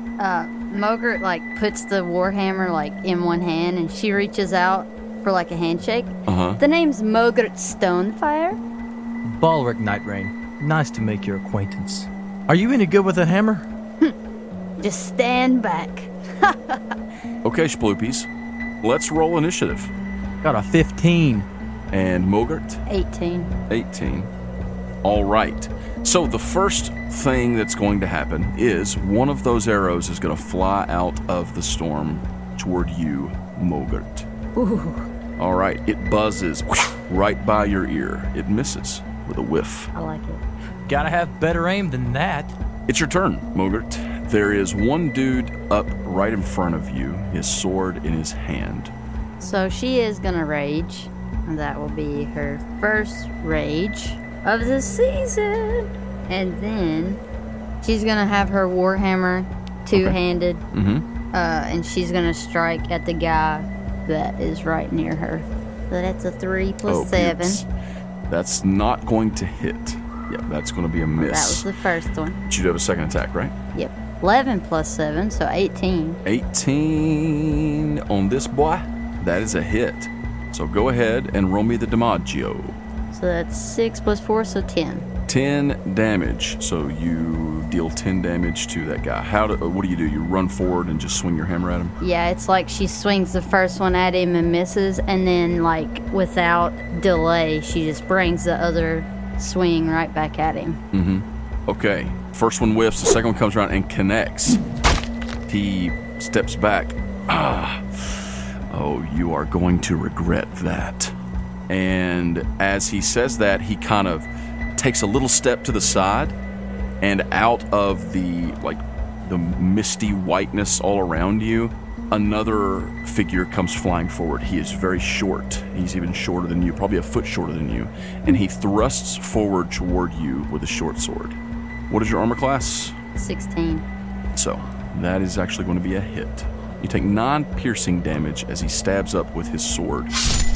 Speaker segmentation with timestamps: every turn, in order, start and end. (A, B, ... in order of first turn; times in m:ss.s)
0:00.2-0:08.6 A
0:06.3-0:06.6 B
0:09.2-0:13.7 C
0:14.8-0:16.9 A
0:17.4-0:18.3 B
0:18.8-0:19.9 B
0:20.4-0:21.5 C
0:21.9-0:22.8 B
0:22.9-0:23.5 A
0:23.7-0:24.3 B
0:25.0-0:34.3 B
0:34.6-0:35.1 A
0:35.4-0:39.9 B
0:39.9-0:40.4 A
0:40.9-0:42.6 C
0:42.9-0:48.9 B
0:49.4-0:57.2 A
0:57.8-1:00.6 A
1:00.7-1:01.0 B
1:01.3-1:07.6 A
1:06.9-1:07.7 B
1:08.3-1:11.7 B
1:11.2-1:12.4 A
1:12.5-1:13.5 B
1:13.7-1:16.2 A
1:16.2-1:22.8 B
1:23.1-1:25.1 A
1:25.3-1:32.0 B
1:32.0-1:40.8 A
1:40.9-1:44.6 B
1:45.5-1:51.2 B
1:51.7-1:56.4 B
1:57.0-2:11.4 B
2:11.9-2:13.0 B
2:13.2-2:13.9 A
2:14.3-2:20.1 B